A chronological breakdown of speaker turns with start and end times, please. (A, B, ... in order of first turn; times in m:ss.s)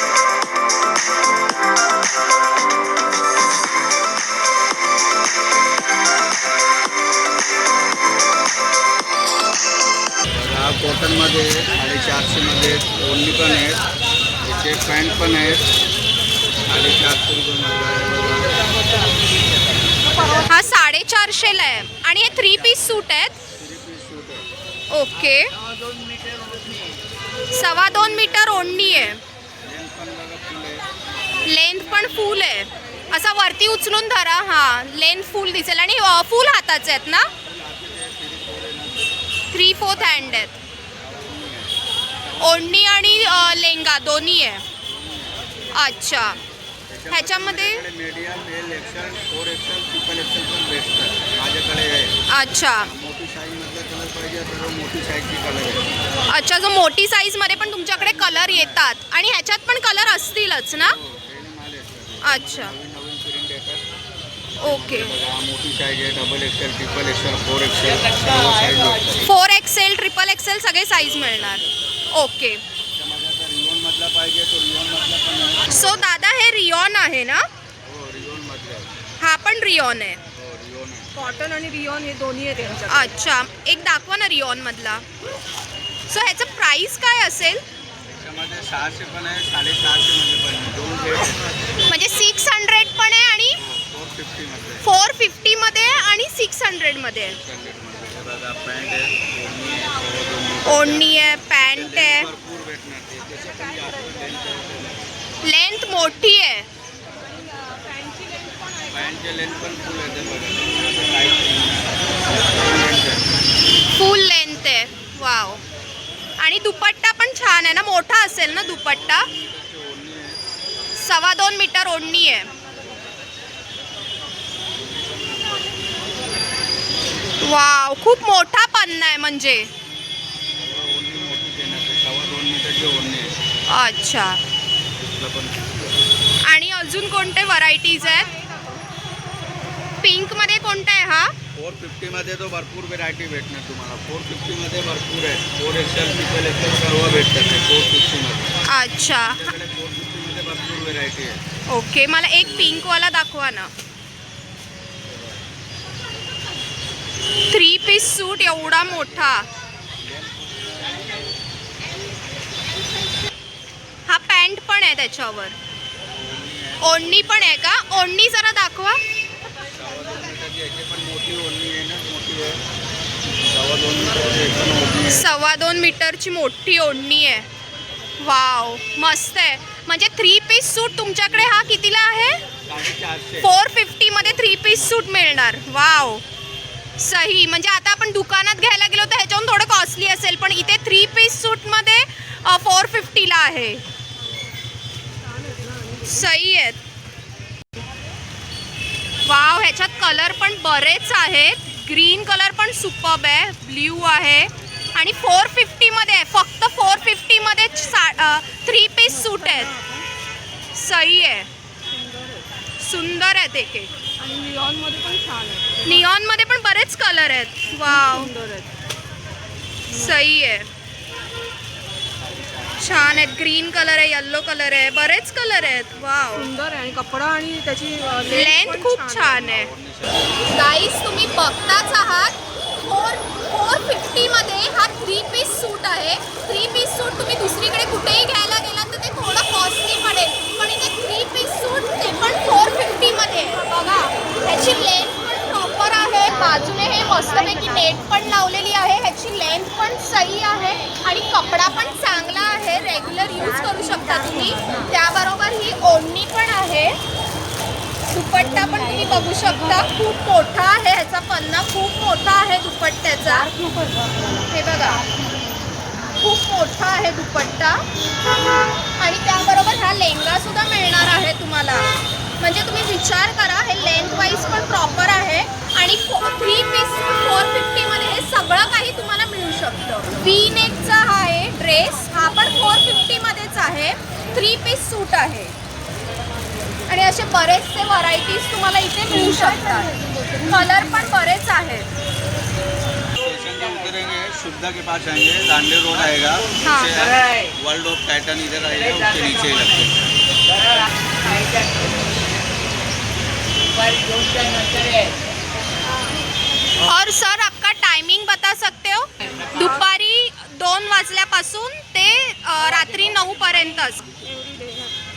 0:10.3-0:13.8 A
0:14.4-0:15.6 A
0:16.7-0:18.6 A
0:20.4-0:23.4 B
0:22.5-0:24.5 A
0:24.9-0:25.5 B
0:27.5-0:29.2 B
0:29.6-0:30.9 A
0:31.4-0:37.3 B
0:37.4-0:39.2 A
0:39.5-0:40.5 B
0:41.0-0:43.0 A
0:42.4-0:44.6 B
0:44.8-0:45.4 A
0:45.7-0:46.4 B
0:46.9-0:52.1 A
0:47.1-0:47.8 B
0:52.3-0:52.9 B
0:52.8-0:55.8 A
0:56.3-1:01.0 B
0:58.1-0:58.8 A
1:00.8-1:03.8 A
1:02.2-1:02.7 B
1:04.6-1:05.1 B
1:04.6-1:09.3 A
1:09.2-1:12.6 B
1:11.0-1:11.7 A
1:12.9-1:16.0 A
1:15.7-1:17.4 B
1:17.8-1:18.9 A
1:19.2-1:20.2 B
1:20.3-1:21.1 A
1:21.1-1:23.1 C
1:22.9-1:25.0 B
1:26.1-1:27.6 B
1:28.0-1:31.4 A
1:31.9-1:33.6 B
1:33.6-1:34.8 A
1:34.8-1:37.4 B
1:37.2-1:45.1 A
1:40.6-1:42.3 B
1:45.4-1:46.7 B
1:47.7-1:49.1 C
1:48.9-1:53.2 A
1:53.9-1:55.6 B
1:56.4-1:59.3 B
1:58.5-2:00.4 A
2:01.0-2:02.5 B
2:04.7-2:06.2 A
2:07.4-2:09.7 B
2:10.6-2:13.3 A
2:13.7-2:14.4 B
2:15.0-2:15.9 A
2:16.4-2:18.3 B
2:18.0-2:18.9 C
2:20.0-2:21.3 B
2:21.5-2:28.5 A
2:28.6-2:29.5 B
2:29.2-2:31.4 A
2:31.7-2:33.7 B
2:35.1-2:35.4 A
2:37.5-2:39.5 B
2:37.9-2:39.4 A
2:40.0-2:41.0 A
2:44.0-2:45.6 B
2:46.1-2:47.9 A
2:46.8-2:49.0 B
2:49.5-2:52.6 A
2:53.3-2:55.2 A
2:55.1-2:57.4 B
2:58.2-3:02.4 B
3:02.6-3:03.5 A
3:03.4-3:06.2 B
3:04.4-3:04.7 A
3:07.0-3:13.8 B
3:16.0-3:16.8 B
3:19.2-3:29.8 B
3:29.2-3:30.0 C
3:30.7-3:31.5 B
3:31.9-3:32.4 C
3:32.8-3:33.9 B
3:34.2-3:36.0 C
3:35.8-3:38.3 B
3:37.8-3:38.7 C
3:39.9-3:40.1 C
3:39.9-3:40.7 B
3:42.2-3:42.8 A
3:42.8-3:46.5 B
3:46.3-3:49.4 C
3:48.2-3:49.7 B
3:49.3-3:50.5 A
3:50.4-4:17.0 B
4:18.1-4:23.6 B
4:23.6-4:24.4 C
4:24.5-4:25.0 B
4:26.2-4:27.8 B
4:29.0-4:31.9 B
4:32.4-4:45.5 B
4:46.9-4:51.9 B
4:53.1-5:00.0 A
4:56.6-4:57.1 B
5:06.8-5:14.2 B
5:14.2-5:14.9 C